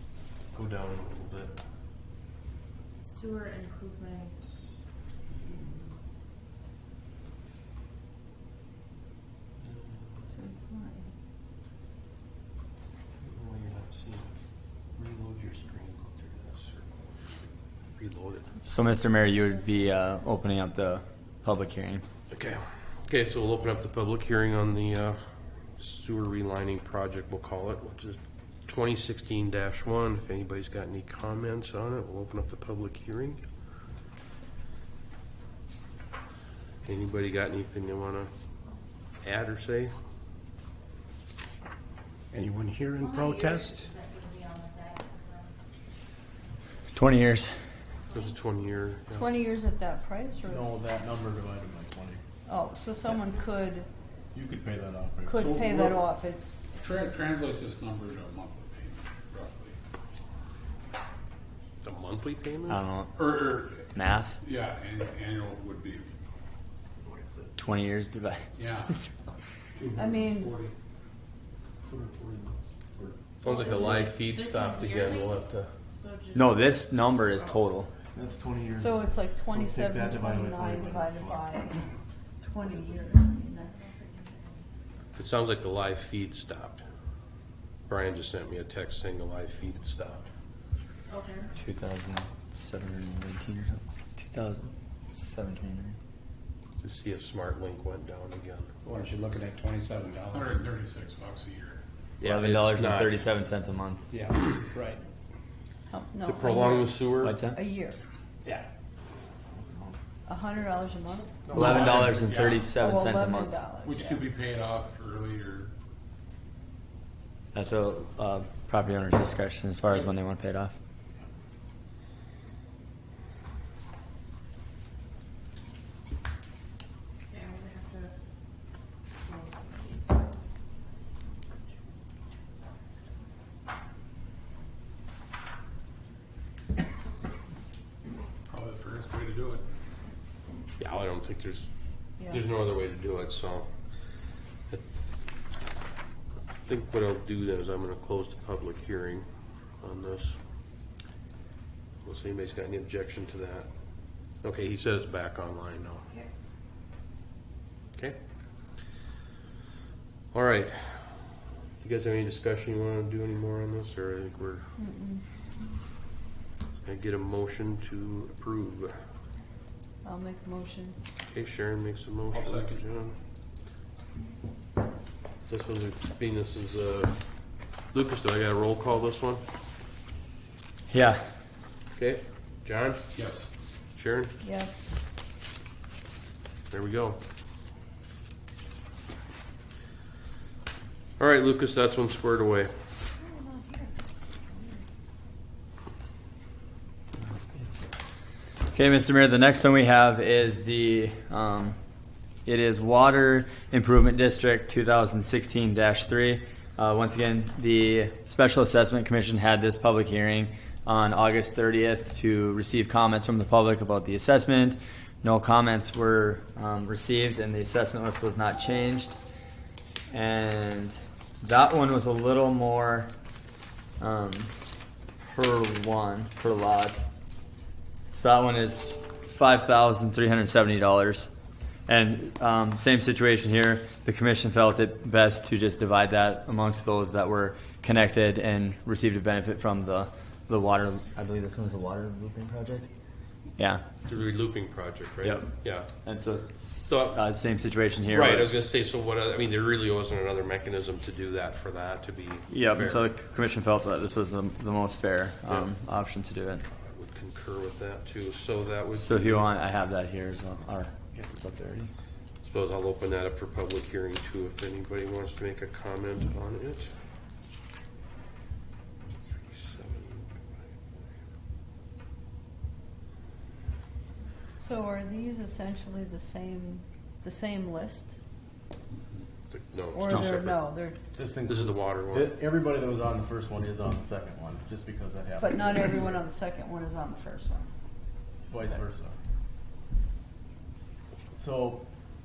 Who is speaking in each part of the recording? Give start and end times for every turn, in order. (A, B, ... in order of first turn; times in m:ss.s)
0:00.5-0:01.6 A
0:03.0-0:04.6 B
0:10.3-0:11.1 C
0:13.2-0:14.3 A
0:15.0-0:17.0 A
0:18.0-0:18.5 A
0:18.6-0:22.0 D
0:22.3-0:25.2 A
0:25.8-0:33.4 A
0:36.8-0:38.3 A
0:39.2-0:39.9 A
0:42.4-0:43.7 A
0:42.9-0:45.6 B
0:43.2-0:43.6 E
0:46.9-0:47.5 D
0:48.1-0:48.3 B
0:48.1-0:49.3 A
0:49.1-0:50.7 C
0:50.4-0:52.2 E
0:52.5-0:53.9 C
0:54.3-0:55.8 E
0:55.3-0:56.7 C
0:55.4-0:56.0 F
0:56.8-0:59.8 F
1:01.8-1:02.8 A
1:02.7-1:03.2 D
1:03.2-1:03.8 F
1:03.9-1:04.4 D
1:04.4-1:06.1 F
1:07.0-1:07.5 E
1:07.6-1:09.0 D
1:08.6-1:08.9 F
1:10.0-1:10.6 C
1:11.9-1:13.2 E
1:13.4-1:15.7 A
1:13.5-1:17.6 B
1:13.8-1:14.0 E
1:16.3-1:17.9 D
1:18.1-1:21.5 E
1:18.8-1:21.9 C
1:22.4-1:24.0 C
1:22.6-1:24.7 B
1:25.2-1:26.8 A
1:27.9-1:30.3 A
1:31.1-1:31.5 B
1:31.6-1:36.0 D
1:36.8-1:38.7 A
1:38.8-1:40.5 G
1:40.2-1:41.8 F
1:42.2-1:43.3 A
1:42.2-1:44.0 D
1:44.1-1:44.9 G
1:45.9-1:48.0 C
1:46.2-1:47.4 A
1:47.2-1:47.6 D
1:49.5-1:50.0 E
1:50.3-1:51.5 C
1:51.5-1:52.2 E
1:51.5-1:52.6 F
1:51.5-1:53.6 D
1:52.8-1:54.3 C
1:53.8-1:55.7 F
1:57.5-2:00.8 D
2:07.3-2:08.1 B
2:09.2-2:10.6 B
2:11.5-2:12.4 B
2:18.5-2:19.6 F
2:20.8-2:21.7 A
2:22.2-2:23.7 A
2:26.7-2:29.2 A
2:29.8-2:30.4 A
2:32.0-2:33.7 A
2:34.4-2:36.1 A
2:40.3-2:41.2 A
2:41.8-2:44.7 A
2:44.8-2:45.2 C
2:46.8-2:48.9 A
2:50.0-2:51.0 C
2:51.3-2:53.2 A
2:52.3-2:52.8 F
2:55.4-2:57.1 A
2:57.9-2:59.4 A
3:00.9-3:01.2 D
3:01.9-3:03.0 A
3:03.2-3:03.5 F
3:04.0-3:04.3 A
3:04.4-3:04.9 C
3:06.7-3:07.2 A
3:11.2-3:12.7 A
3:13.2-3:13.9 C
3:17.2-3:17.8 D
3:18.7-3:21.8 D
3:22.5-3:39.2 D
3:40.1-3:43.1 D
3:44.0-3:44.5 D
3:45.2-3:47.0 D
3:48.1-3:51.3 D
3:51.9-4:02.9 D
4:03.6-4:04.2 D
4:04.0-4:05.9 A
4:05.2-4:08.5 D
4:06.7-4:07.2 A
4:08.1-4:13.0 A
4:12.5-4:16.6 D
4:16.8-4:19.5 A
4:18.9-4:21.9 D
4:22.4-4:26.9 A
4:29.4-4:31.1 A
4:34.6-4:38.2 C
4:39.5-4:40.6 A
4:39.9-4:41.0 C
4:41.2-4:46.2 E
4:41.4-4:42.4 A
4:45.4-4:47.7 C
4:48.5-4:49.2 E
4:51.3-4:51.8 E